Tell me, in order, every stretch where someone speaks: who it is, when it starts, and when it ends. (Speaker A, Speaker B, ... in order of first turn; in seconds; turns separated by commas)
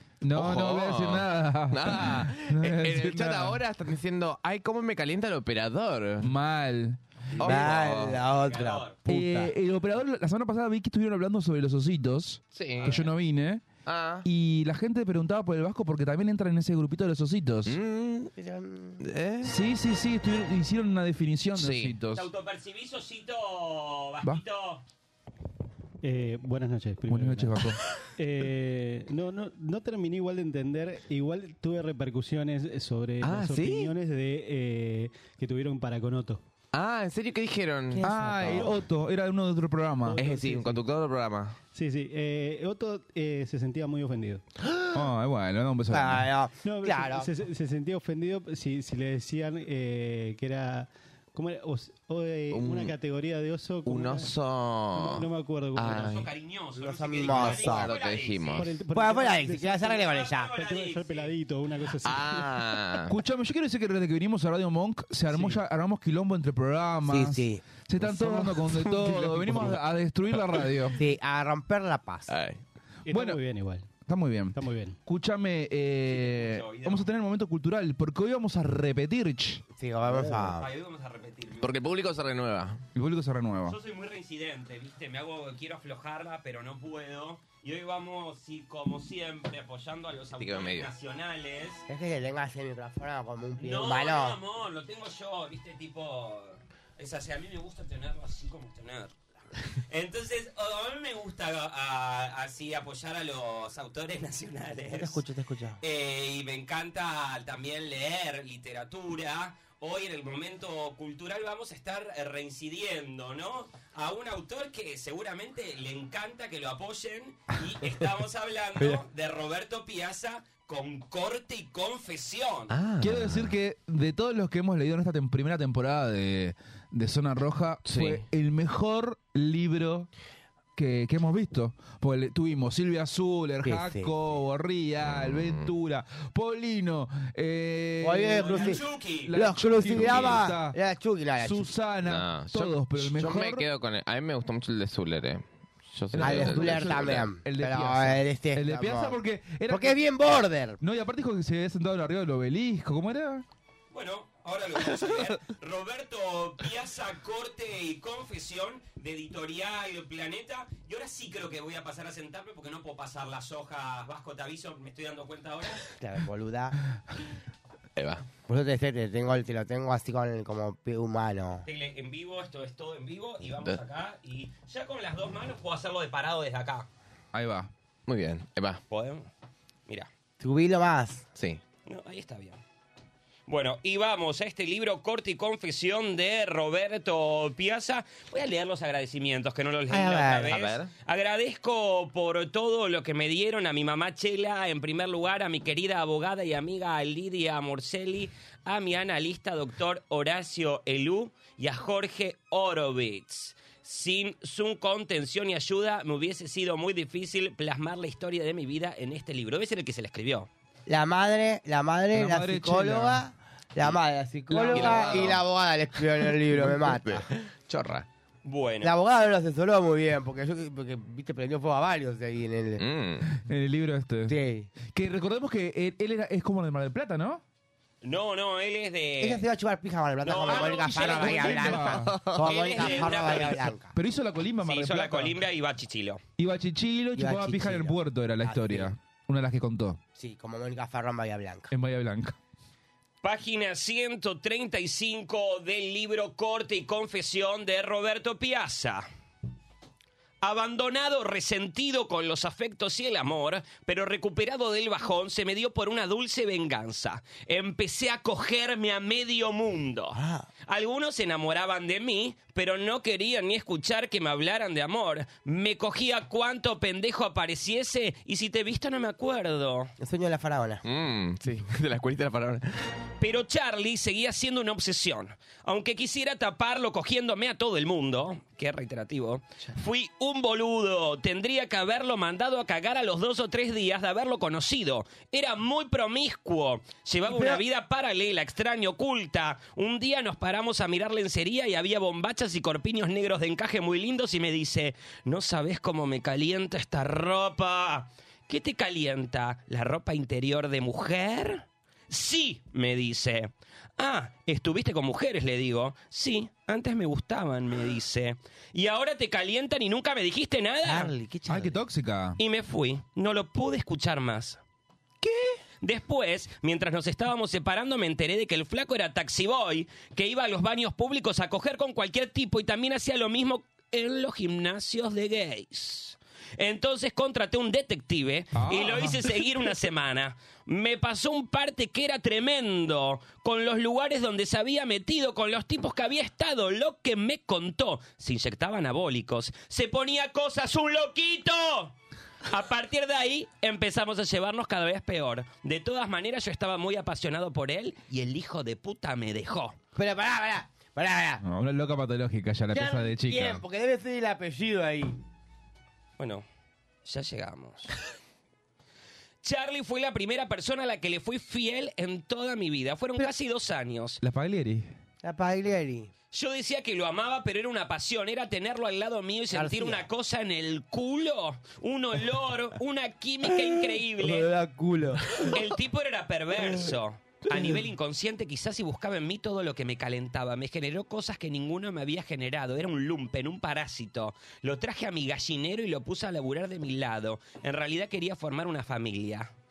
Speaker A: 0.2-3.6, Speaker B: 0.3-6.3, Speaker A: 6.2-7.7, Speaker B: 7.4-8.2, Speaker C: 7.4-9.5, Speaker D: 8.3-9.0, Speaker A: 9.1-13.7, Speaker B: 12.5-13.1, Speaker B: 13.8-14.2, Speaker A: 14.2-17.8, Speaker B: 17.7-18.3, Speaker C: 18.4-19.0, Speaker B: 19.0-19.5, Speaker A: 19.4-22.3, Speaker B: 21.6-22.0, Speaker D: 22.1-24.8, Speaker E: 26.0-27.6, Speaker A: 27.1-27.8, Speaker E: 28.2-36.4, Speaker B: 33.2-33.9, Speaker B: 36.7-38.7, Speaker C: 38.0-38.6, Speaker A: 38.0-40.2, Speaker E: 38.1-38.7, Speaker E: 40.0-40.8, Speaker B: 40.2-41.6, Speaker E: 41.7-44.4, Speaker A: 44.9-46.3, Speaker C: 45.9-47.3, Speaker E: 46.6-54.3, Speaker B: 52.5-53.0, Speaker B: 53.9-56.3, Speaker E: 55.0-56.1, Speaker D: 55.9-58.7, Speaker C: 56.8-58.0, Speaker B: 57.3-58.8, Speaker E: 58.5-59.9, Speaker C: 58.9-60.6, Speaker D: 59.7-61.3, Speaker E: 60.5-62.7, Speaker B: 62.0-63.2, Speaker A: 63.1-71.0, Speaker E: 65.3-65.6, Speaker C: 67.1-68.6, Speaker C: 71.0-72.3, Speaker B: 72.3-72.6, Speaker E: 73.1-73.9, Speaker A: 73.1-73.4, Speaker A: 74.1-79.6, Speaker E: 74.5-75.0, Speaker D: 76.1-77.1, Speaker C: 79.8-80.7, Speaker E: 80.1-80.5, Speaker D: 80.6-81.8, Speaker B: 81.6-82.8, Speaker A: 83.0-83.8, Speaker D: 83.7-91.8, Speaker B: 90.4-90.9, Speaker C: 91.9-94.4, Speaker D: 93.6-99.1, Speaker D: 99.9-105.2, Speaker C: 104.8-105.8, Speaker D: 105.8-122.7, Speaker B: 122.7-123.5, Speaker A: 123.0-130.1, Speaker B: 127.9-128.2, Speaker A: 130.8-140.8, Speaker C: 133.6-134.1, Speaker B: 135.2-135.7, Speaker C: 138.0-141.8, Speaker D: 138.4-139.3, Speaker B: 140.0-140.4, Speaker A: 141.4-143.7, Speaker B: 142.1-147.3, Speaker A: 146.1-150.0, Speaker C: 146.2-149.2, Speaker C: 149.7-150.8, Speaker A: 150.8-153.4, Speaker D: 153.9-165.8, Speaker C: 166.0-166.8, Speaker B: 168.0-168.3, Speaker C: 168.5-171.7, Speaker D: 171.7-176.9, Speaker A: 177.3-177.7, Speaker B: 178.1-178.8, Speaker D: 178.9-179.3, Speaker C: 180.4-181.3, Speaker B: 181.4-181.6, Speaker D: 181.9-182.6, Speaker D: 183.5-210.5, Speaker C: 189.9-190.6, Speaker B: 190.5-190.9, Speaker C: 210.9-217.3, Speaker A: 212.1-213.2, Speaker A: 214.5-215.4, Speaker B: 214.7-215.4, Speaker B: 216.2-218.1, Speaker D: 218.4-218.9, Speaker C: 218.8-222.8, Speaker B: 222.8-223.3, Speaker A: 223.3-224.4, Speaker C: 224.3-224.7, Speaker A: 224.9-227.4, Speaker D: 228.0-229.4, Speaker C: 229.2-233.9, Speaker D: 230.2-233.7, Speaker A: 230.5-232.2, Speaker B: 232.1-232.5, Speaker A: 233.9-235.4, Speaker D: 234.6-236.2, Speaker A: 236.4-240.0, Speaker C: 237.2-238.9, Speaker C: 240.2-241.7, Speaker A: 241.7-242.4, Speaker D: 243.2-249.1, Speaker D: 250.4-269.9, Speaker C: 260.1-260.5, Speaker C: 270.0-270.8, Speaker B: 270.8-272.7, Speaker D: 273.2-311.1, Speaker A: 287.3-287.6, Speaker C: 310.8-311.8, Speaker A: 311.5-312.4, Speaker D: 312.4-314.6, Speaker D: 315.8-341.9, Speaker A: 328.5-329.4, Speaker D: 342.5-349.8, Speaker C: 350.0-351.4, Speaker A: 351.4-353.6, Speaker C: 352.7-355.2, Speaker D: 356.2-356.4, Speaker D: 357.1-357.9, Speaker D: 359.4-364.2, Speaker A: 364.2-364.9, Speaker C: 365.2-366.1, Speaker D: 366.3-374.5, Speaker C: 369.5-370.1, Speaker C: 374.2-375.6, Speaker D: 375.5-389.5, Speaker C: 377.5-377.8